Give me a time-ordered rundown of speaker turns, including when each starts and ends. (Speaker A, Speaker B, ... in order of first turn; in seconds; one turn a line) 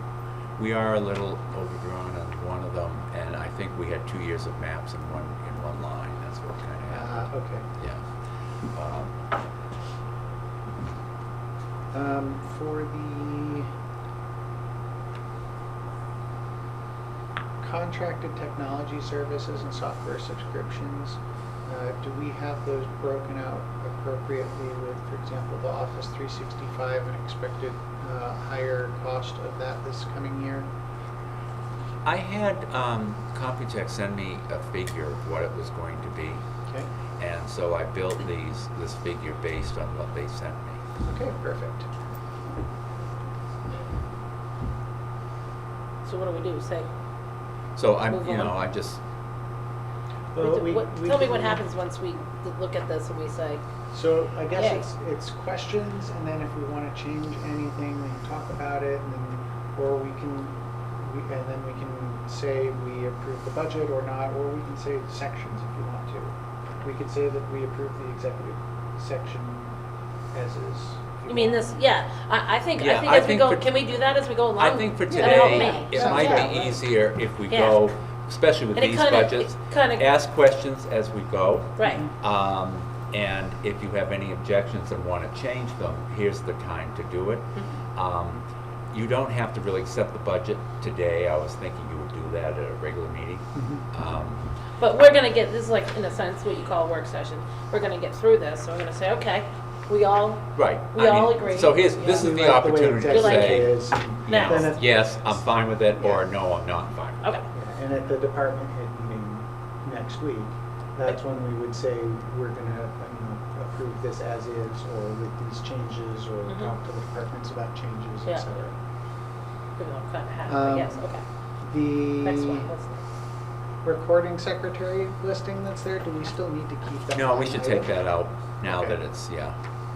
Speaker A: 0.6-8.1
Speaker B: 6.9-7.7
Speaker A: 8.7-9.1
Speaker B: 11.9-13.7
Speaker B: 17.6-30.7
Speaker A: 32.0-36.4
Speaker A: 37.2-40.8
Speaker B: 41.0-41.9
Speaker C: 46.1-46.9
Speaker A: 47.8-49.0
Speaker C: 48.1-48.6
Speaker B: 50.3-51.6
Speaker C: 50.4-53.6
Speaker B: 53.9-69.7
Speaker C: 54.5-54.9
Speaker B: 70.3-71.7
Speaker C: 71.3-76.7
Speaker A: 72.8-74.0
Speaker A: 74.5-94.5
Speaker B: 75.1-76.7
Speaker C: 77.5-77.8
Speaker C: 78.8-80.1
Speaker C: 81.8-82.0
Speaker B: 81.8-82.1
Speaker B: 93.5-93.8
Speaker C: 94.8-102.3
Speaker A: 100.5-107.4
Speaker B: 102.0-106.3
Speaker C: 103.1-104.7
Speaker B: 107.5-118.8
Speaker C: 116.5-116.8
Speaker C: 119.8-121.2
Speaker B: 120.5-121.0
Speaker B: 121.6-122.7
Speaker C: 122.2-123.0
Speaker B: 123.8-128.0
Speaker A: 127.1-129.6
Speaker B: 128.7-129.0